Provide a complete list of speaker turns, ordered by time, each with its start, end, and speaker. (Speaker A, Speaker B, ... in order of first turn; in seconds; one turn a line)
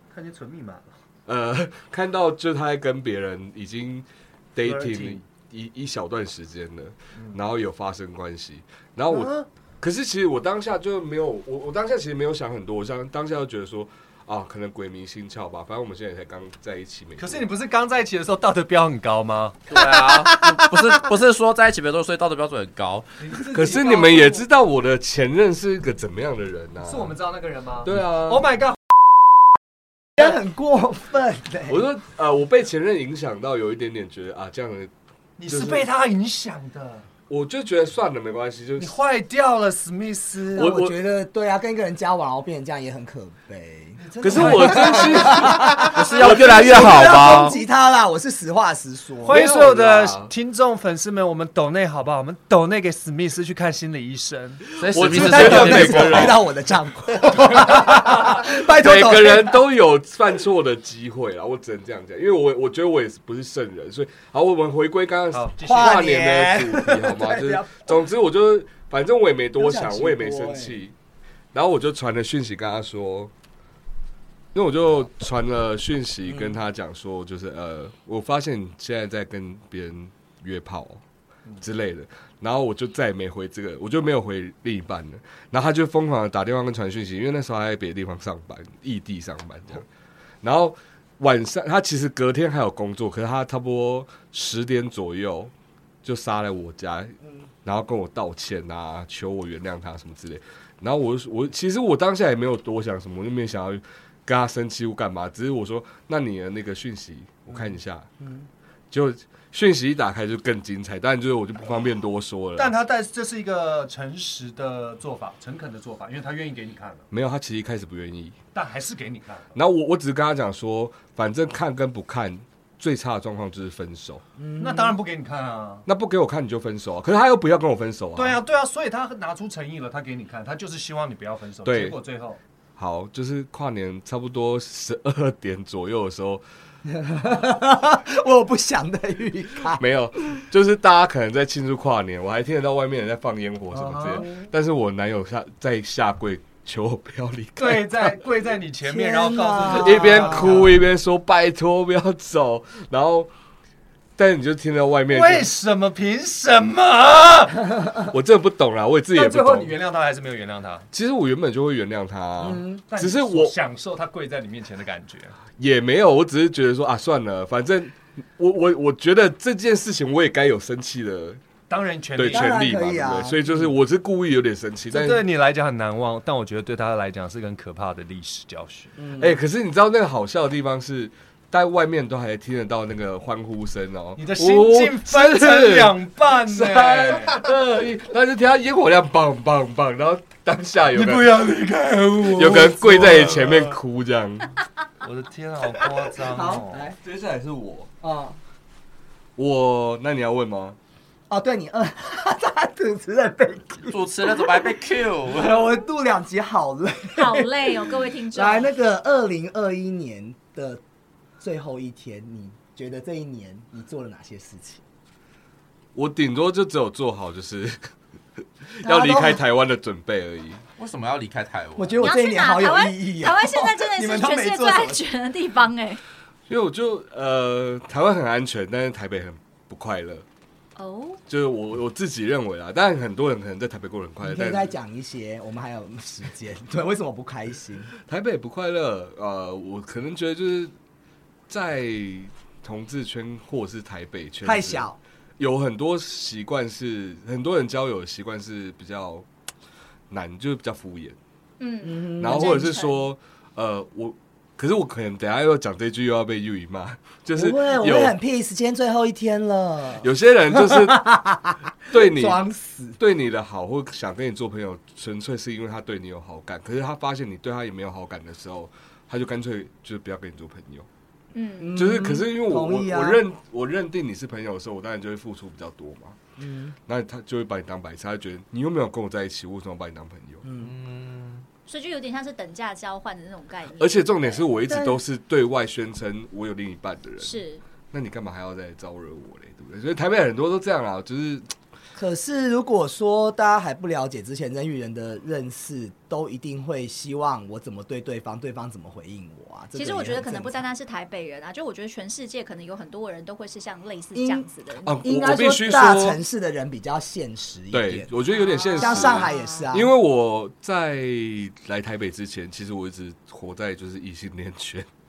Speaker A: 0.1-1.0
Speaker B: 1.2-17.5
Speaker A: 4.6-5.2
Speaker A: 7.2-7.4
Speaker A: 9.1-9.5
Speaker A: 17.2-20.0
Speaker C: 19.7-23.2
Speaker A: 23.2-24.4
Speaker B: 23.5-27.1
Speaker A: 26.8-28.8
Speaker B: 27.8-28.5
Speaker D: 30.2-31.8
Speaker B: 31.7-34.9
Speaker A: 35.4-37.1
Speaker B: 35.5-35.8
Speaker B: 37.3-38.9
Speaker A: 38.8-40.7
Speaker D: 40.5-49.5
Speaker B: 40.5-41.0
Speaker A: 44.0-45.5
Speaker B: 44.2-47.1
Speaker C: 45.8-47.6
Speaker A: 49.2-54.6
Speaker B: 49.3-50.3
Speaker C: 54.8-56.4
Speaker B: 54.8-56.4
Speaker D: 55.1-59.6
Speaker B: 57.2-70.9
Speaker A: 65.3-66.1
Speaker D: 65.6-68.0
Speaker D: 69.6-70.8
Speaker B: 71.5-73.3
Speaker B: 74.5-81.0
Speaker B: 81.6-89.8
Speaker B: 90.4-95.5
Speaker B: 96.0-108.1
Speaker B: 108.9-112.7
Speaker A: 112.5-117.0
Speaker B: 117.1-118.3
Speaker A: 118.5-119.5
Speaker B: 119.5-124.2
Speaker D: 124.4-124.9
Speaker A: 124.6-125.8
Speaker B: 125.8-128.4
Speaker A: 128.2-132.4
Speaker B: 131.6-132.0
Speaker B: 132.8-136.4
Speaker D: 136.8-139.8
Speaker B: 139.8-148.1
Speaker D: 143.7-144.4
Speaker A: 143.9-144.2
Speaker A: 147.6-150.7
Speaker D: 148.8-150.7
Speaker B: 149.6-153.3
Speaker B: 154.2-155.5
Speaker A: 155.1-157.6
Speaker B: 158.1-159.7
Speaker A: 159.1-160.9
Speaker B: 160.9-163.6
Speaker D: 162.4-162.8
Speaker A: 162.9-165.4
Speaker B: 165.6-171.4
Speaker A: 171.7-172.7
Speaker B: 172.1-175.2
Speaker D: 172.3-173.4
Speaker A: 174.9-178.9
Speaker D: 179.0-179.4
Speaker B: 179.2-191.5
Speaker A: 184.2-187.4
Speaker A: 190.9-193.7
Speaker B: 192.3-194.6
Speaker A: 195.0-196.9
Speaker D: 196.2-196.9
Speaker B: 197.0-197.9
Speaker D: 198.0-198.4
Speaker B: 199.4-200.8
Speaker D: 201.3-204.7
Speaker C: 203.9-205.6
Speaker D: 205.3-210.8
Speaker E: 207.2-208.7
Speaker D: 211.4-214.8
Speaker B: 215.9-217.9
Speaker B: 218.7-220.6
Speaker D: 218.8-219.4
Speaker C: 220.8-222.0
Speaker D: 221.8-225.0
Speaker E: 222.0-226.0
Speaker B: 226.5-230.2
Speaker E: 230.8-231.2
Speaker B: 231.3-234.7
Speaker D: 234.2-237.9
Speaker B: 238.1-240.7
Speaker B: 241.5-244.9
Speaker D: 244.4-245.0
Speaker B: 245.4-249.2
Speaker B: 250.1-251.2
Speaker E: 251.6-253.1
Speaker D: 251.8-252.7
Speaker B: 252.2-258.1
Speaker D: 257.4-263.0
Speaker B: 260.0-261.1
Speaker B: 261.9-262.4
Speaker B: 263.0-270.9
Speaker E: 271.3-271.8
Speaker D: 271.6-273.2
Speaker B: 271.8-276.2
Speaker D: 276.4-276.7
Speaker B: 276.9-280.4
Speaker D: 280.4-280.7
Speaker C: 280.6-281.4
Speaker E: 281.7-284.6
Speaker B: 283.8-291.5
Speaker D: 284.7-285.0
Speaker E: 287.2-287.6
Speaker D: 291.9-300.6
Speaker E: 299.7-305.0
Speaker D: 304.1-304.5
Speaker B: 304.8-306.2
Speaker D: 305.0-308.1
Speaker B: 307.7-314.9
Speaker E: 308.3-309.7
Speaker D: 308.8-309.9